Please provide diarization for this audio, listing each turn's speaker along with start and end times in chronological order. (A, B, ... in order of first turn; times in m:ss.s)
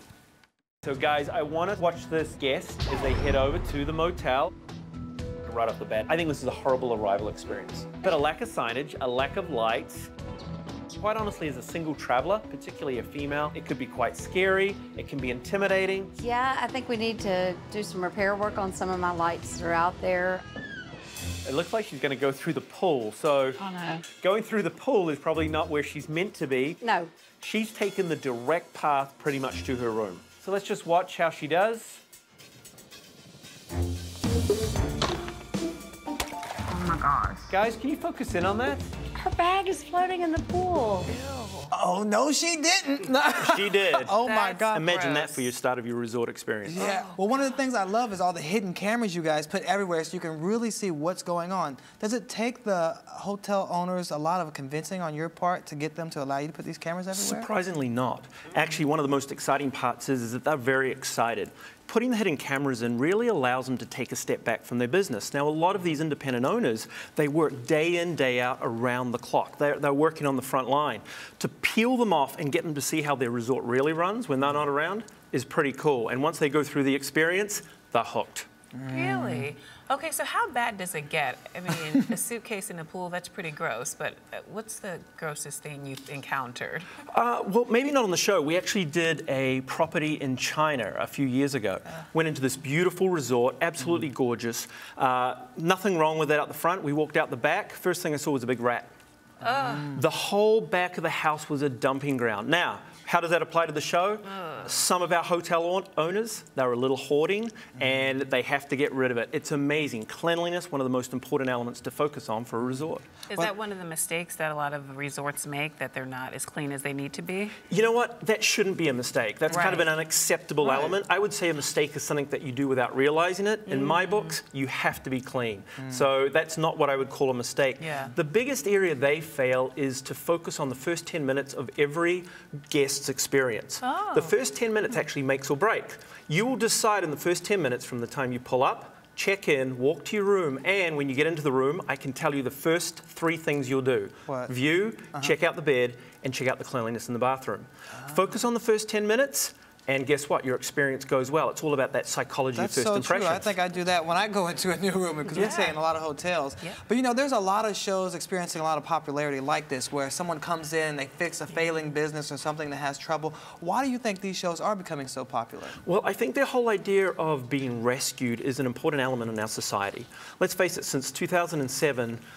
0:00.8-0:04.5 A
0:05.4-0:10.1 A
0:10.9-0:16.1 A
0:16.2-0:20.4 B
0:21.4-0:23.6 A
0:23.6-0:24.0 B
0:24.1-0:26.8 A
0:26.8-0:27.1 B
0:27.4-0:32.0 A
0:36.7-0:37.5 B
0:37.5-0:38.9 A
0:39.2-0:41.1 B
0:41.0-0:41.7 C
0:41.7-0:44.9 D
0:43.4-0:44.2 A
0:44.2-0:45.5 C
0:44.7-0:46.9 A
0:46.7-0:57.5 D
0:46.8-0:47.6 C
0:57.1-1:18.5 A
1:18.7-1:19.5 D
1:18.9-1:26.9 C
1:27.1-1:38.9 A
1:39.4-1:40.0 C
1:39.8-1:53.0 A
1:44.3-1:44.6 C
1:53.3-1:57.6 C
1:57.7-2:33.6 A
1:59.5-1:59.9 C
2:00.6-2:00.9 D
2:03.8-2:04.3 C
2:07.8-2:08.1 C
2:13.8-2:14.3 C
2:24.3-2:24.5 D
2:32.5-2:45.8 D
2:35.3-2:35.8 C
2:35.3-2:35.7 A
2:45.8-2:52.2 A